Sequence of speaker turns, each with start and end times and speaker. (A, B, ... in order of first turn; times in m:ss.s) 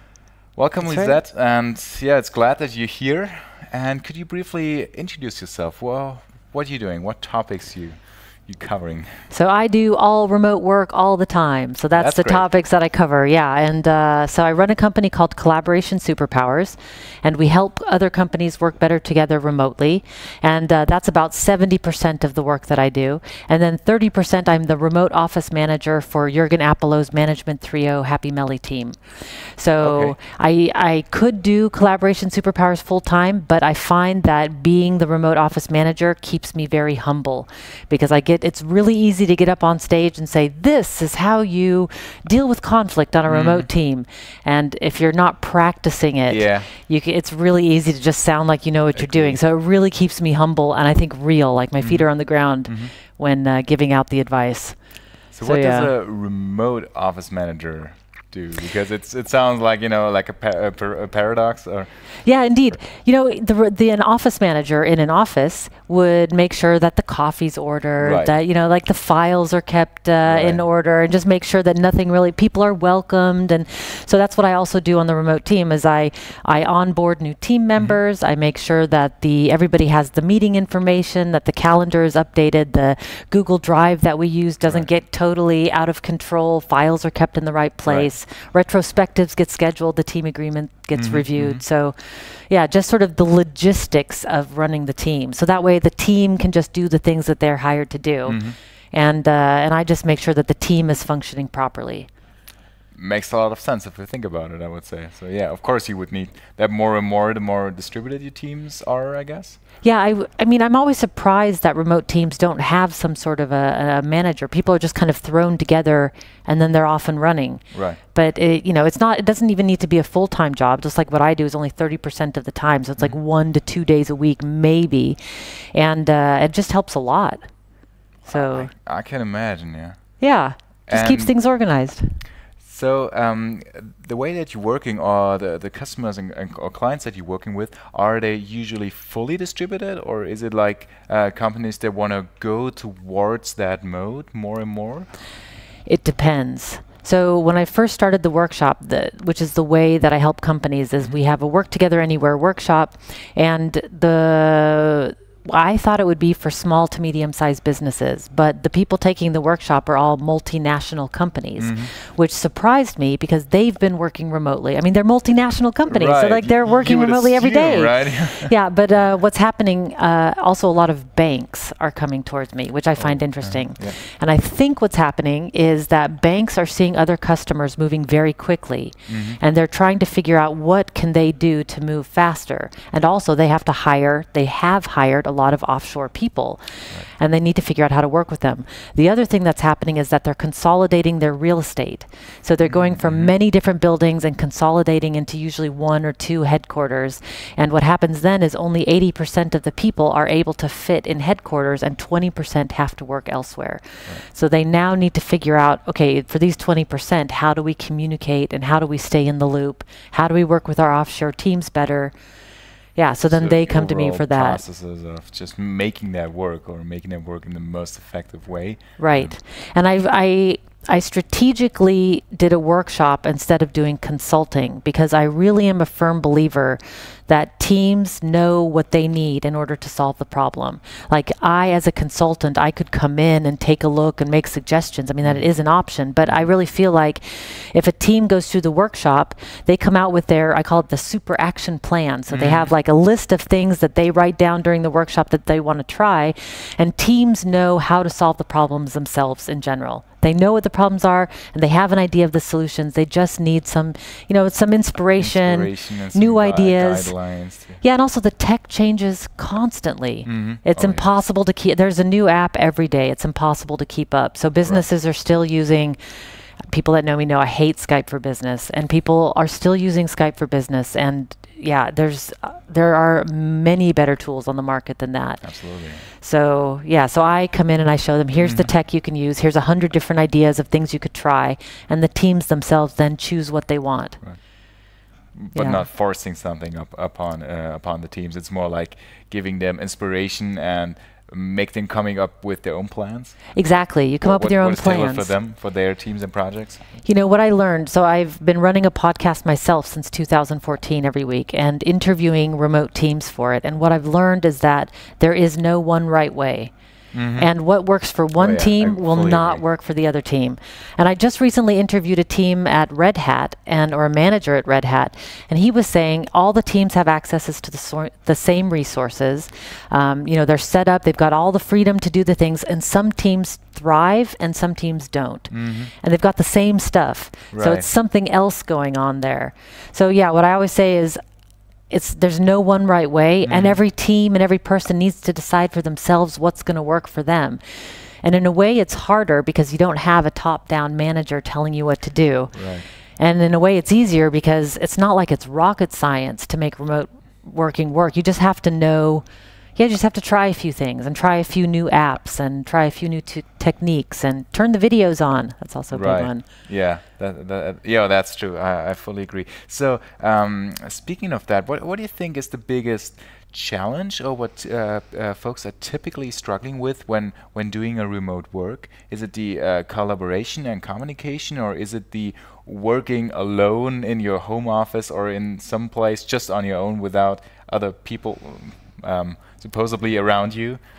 0:00.6-0:09.2 A
0:00.8-0:01.2 B
0:09.3-0:29.0 B
0:12.0-0:12.5 A
0:29.6-0:54.8 B
0:29.8-0:30.2 A
0:43.3-0:43.7 A
0:46.3-0:46.7 A
0:49.0-0:49.4 A
0:51.8-0:52.1 A
0:52.7-0:52.9 A
0:55.3-1:01.9 A
0:55.4-0:55.9 B
1:02.2-1:38.4 B
1:08.0-1:08.3 A
1:10.2-1:10.6 A
1:27.9-1:28.1 A
1:31.0-1:31.6 A
1:38.3-1:38.6 A
1:38.9-1:42.1 B
1:43.0-1:49.6 A
1:49.8-2:07.4 B
1:57.7-1:58.0 A
2:08.3-2:08.7 B
2:08.3-2:10.0 A
2:10.2-2:12.1 B
2:10.9-2:11.3 A
2:12.6-2:25.1 A
2:25.9-3:32.1 B
2:41.6-2:41.9 A
2:45.9-2:48.5 A
2:53.0-2:54.0 A
2:59.1-2:59.4 A
3:12.6-3:13.3 A
3:33.0-3:34.6 B
3:33.2-3:39.4 A
3:39.0-4:17.1 B
4:02.3-4:02.7 A
4:15.2-4:17.8 A
4:17.8-4:26.0 B
4:20.2-4:21.1 A
4:26.7-4:35.5 B
4:35.4-4:36.1 A
4:36.2-4:44.2 B
4:38.4-4:38.7 A
4:45.4-4:53.5 A
4:45.5-4:45.9 B
4:53.6-4:55.3 B
4:54.2-4:56.8 A
4:57.0-5:06.7 B
5:07.1-5:07.5 A
5:07.4-5:31.2 B
5:08.4-5:09.6 A
5:25.5-5:25.9 A
5:27.5-5:27.9 A
5:31.9-5:37.6 B
5:33.4-5:33.8 A
5:38.2-5:42.6 B
5:42.5-5:42.9 A
5:43.2-5:56.4 B
5:55.9-6:20.8 A